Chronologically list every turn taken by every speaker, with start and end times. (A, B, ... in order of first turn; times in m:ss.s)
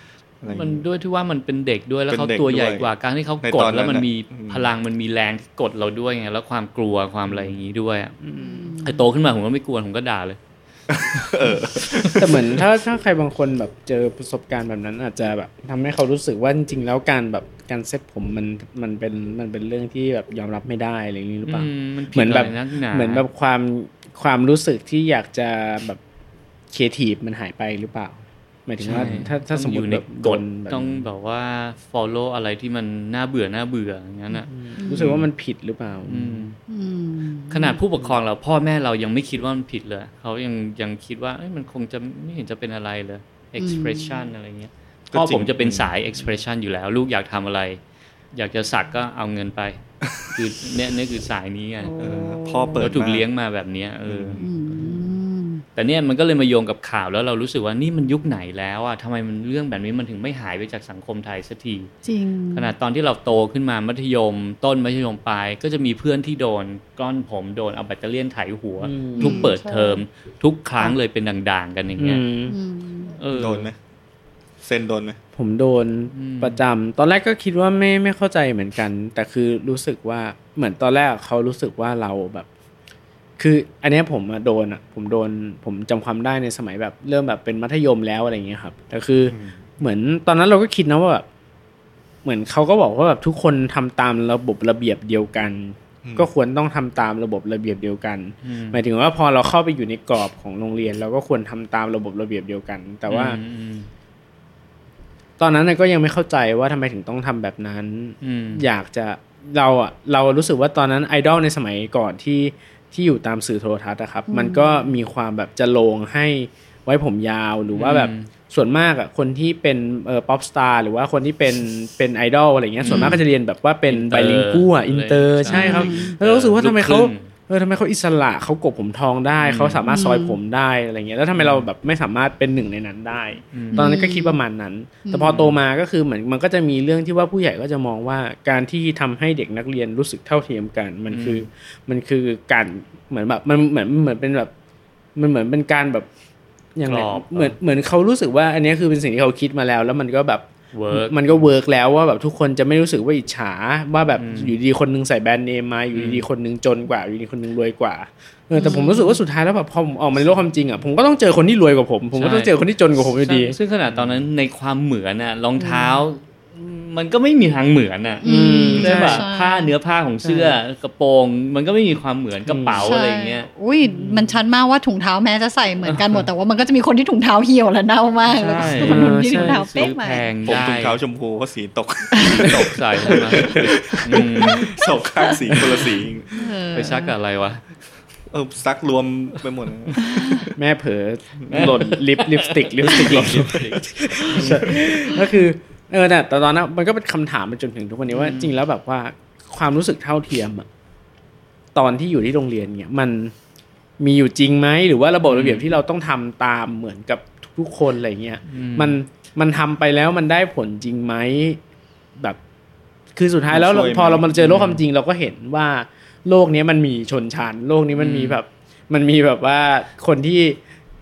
0:00.4-0:00.8 A
0:00.5-0:08.2 B
0:02.1-0:02.9 A
0:03.4-0:04.7 A
0:07.3-0:07.6 A
0:08.2-0:08.8 C
0:08.4-0:09.0 D
0:08.8-0:10.4 B
0:10.9-0:12.4 A
0:11.4-0:12.2 B
0:12.2-0:26.0 C
0:21.4-0:23.2 B
0:26.7-0:31.1 C
0:28.8-0:34.5 B
0:34.5-0:36.5 C
0:34.8-0:35.1 D
0:34.9-0:35.2 A
0:36.1-0:36.6 B
0:36.7-0:37.8 D
0:37.5-0:47.8 B
0:43.6-0:44.3 D
0:45.1-0:45.9 A
0:48.3-0:52.0 B
0:51.8-0:52.9 D
0:52.0-0:53.2 A
0:52.8-0:54.4 B
0:54.1-0:54.9 A
0:54.4-0:55.6 D
0:55.8-1:01.9 B
1:02.0-1:02.7 D
1:02.5-1:12.2 B
1:08.8-1:09.5 C
1:09.2-1:10.0 D
1:12.0-1:12.6 C
1:12.5-1:13.2 D
1:13.2-1:13.7 B
1:13.3-1:13.8 A
1:14.6-1:15.2 A
1:15.4-1:22.5 C
1:16.1-1:16.6 B
1:23.4-1:31.3 C
1:29.3-1:29.6 A
1:32.2-1:43.4 C
1:36.0-1:36.3 A
1:38.4-1:38.8 B
1:43.1-1:43.9 B
1:45.4-2:24.5 C
1:48.2-1:48.6 B
1:54.3-1:54.9 D
1:57.7-1:58.3 B
2:02.8-2:03.2 B
2:02.9-2:03.2 D
2:03.9-2:07.3 B
2:05.5-2:06.1 D
2:09.4-2:09.9 B
2:09.9-2:10.4 D
2:11.4-2:11.7 B
2:13.5-2:14.0 B
2:13.7-2:14.4 D
2:15.1-2:15.5 D
2:21.1-2:21.5 B
2:25.2-2:26.1 C
2:26.8-2:43.6 C
2:26.8-2:27.6 B
2:30.7-2:31.5 B
2:34.2-2:34.6 B
2:35.9-2:36.3 B
2:38.6-2:39.2 D
2:42.2-2:54.4 B
2:45.6-2:46.0 D
2:48.2-2:49.7 D
2:48.2-2:49.2 C
2:50.2-2:50.6 C
2:52.5-2:52.9 C
2:52.8-3:00.2 D
2:55.8-2:56.3 B
2:58.3-3:01.0 B
2:58.7-2:59.6 C
3:00.5-3:06.4 A
3:02.2-3:02.5 D
3:02.4-3:04.7 B
3:05.5-3:05.8 C
3:06.3-3:07.1 D
3:06.7-3:07.6 B
3:08.3-3:10.4 A
3:10.1-3:10.4 D
3:10.5-3:20.7 C
3:11.5-3:14.8 B
3:15.1-3:15.4 D
3:18.1-3:18.5 B
3:21.8-3:23.3 C
3:24.0-3:31.6 C
3:25.3-3:25.8 B
3:28.5-3:29.0 B
3:33.2-3:40.6 C
3:33.5-3:34.3 A
3:34.4-3:34.8 B
3:38.0-3:38.4 B